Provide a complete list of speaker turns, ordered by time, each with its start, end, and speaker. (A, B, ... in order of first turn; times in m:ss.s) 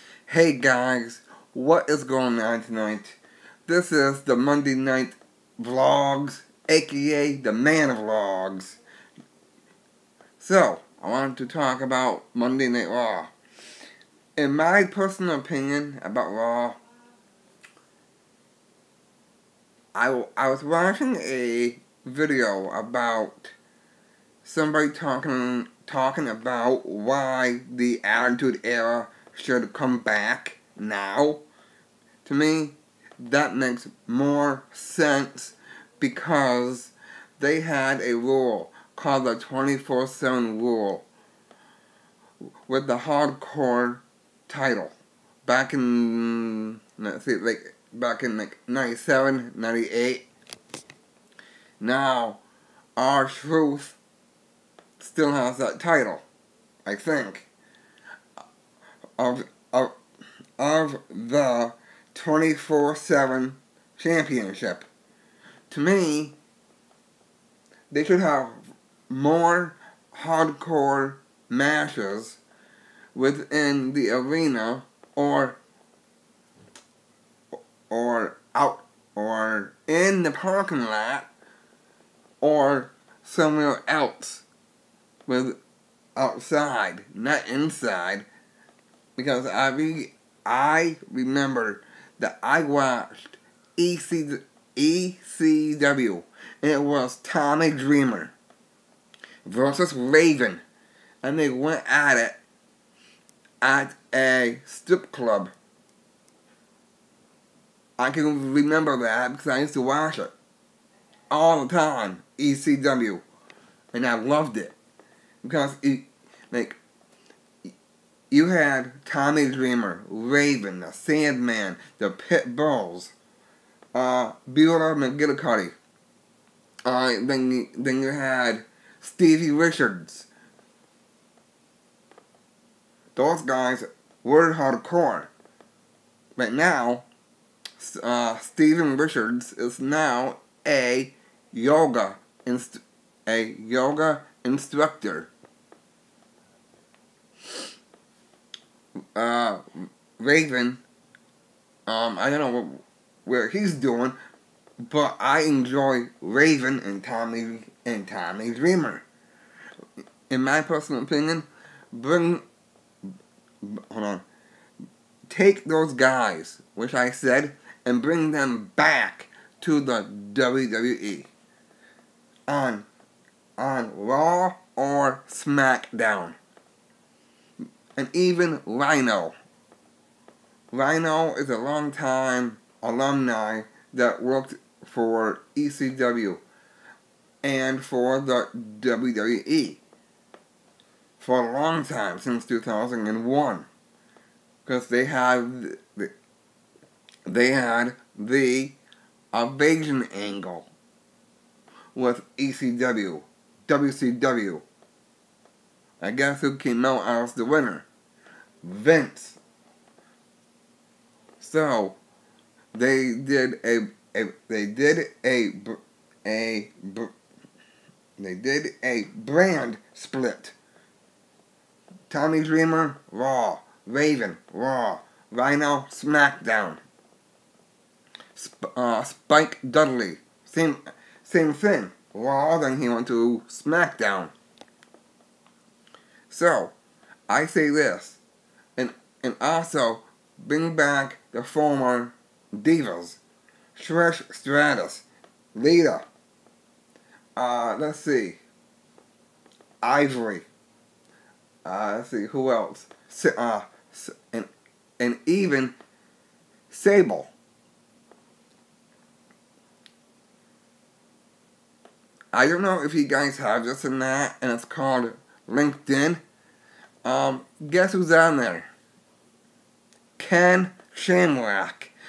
0:00.3-0:08.8 A
0:10.4-0:13.3 A
0:14.4-0:16.8 A
0:19.9-0:23.5 A
0:24.4-0:31.4 A
0:32.2-0:41.1 A
0:42.7-0:50.3 A
0:51.8-0:52.4 A
0:53.0-0:54.0 A
0:55.0-0:56.2 A
0:56.8-0:57.5 A
0:59.2-0:59.9 A
1:00.6-1:04.9 A
1:05.7-1:06.4 A
1:07.9-1:12.4 A
1:13.1-1:15.6 A
1:17.9-1:21.3 A
1:22.4-1:24.4 A
1:25.3-1:25.6 A
1:26.2-1:28.3 A
1:29.2-1:38.3 A
1:39.4-1:40.6 A
1:41.2-1:42.4 A
1:43.6-1:45.5 A
1:48.0-1:50.3 A
1:51.3-1:53.2 A
1:53.9-1:54.8 A
1:55.4-1:56.8 A
1:58.3-2:03.1 A
2:03.9-2:05.7 A
2:06.8-2:10.3 A
2:13.1-2:15.3 A
2:16.4-2:17.1 A
2:17.8-2:25.3 A
2:29.1-2:30.8 A
2:31.9-2:34.2 A
2:34.8-2:39.0 A
2:40.3-2:42.4 A
2:43.6-2:44.2 A
2:45.3-2:51.3 A
2:52.5-2:52.9 A
2:53.6-2:56.4 A
2:58.0-2:59.3 A
3:00.7-3:06.4 A
3:07.4-3:09.8 A
3:11.2-3:13.7 A
3:14.6-3:16.1 A
3:17.2-3:18.8 A
3:19.3-3:20.7 A
3:21.9-3:24.6 A
3:26.0-3:27.8 A
3:28.6-3:29.4 A
3:31.4-3:32.0 A
3:32.7-3:37.1 A
3:38.2-3:40.5 A
3:42.1-3:46.8 A
3:48.4-3:54.3 A
3:56.3-3:56.7 A
3:57.3-3:58.2 A
3:58.8-4:03.2 A
4:03.7-4:06.0 A
4:07.4-4:08.4 A
4:09.8-4:10.5 A
4:11.6-4:15.7 A
4:16.7-4:17.3 A
4:22.3-4:26.2 A
4:27.0-4:28.7 A
4:30.2-4:31.9 A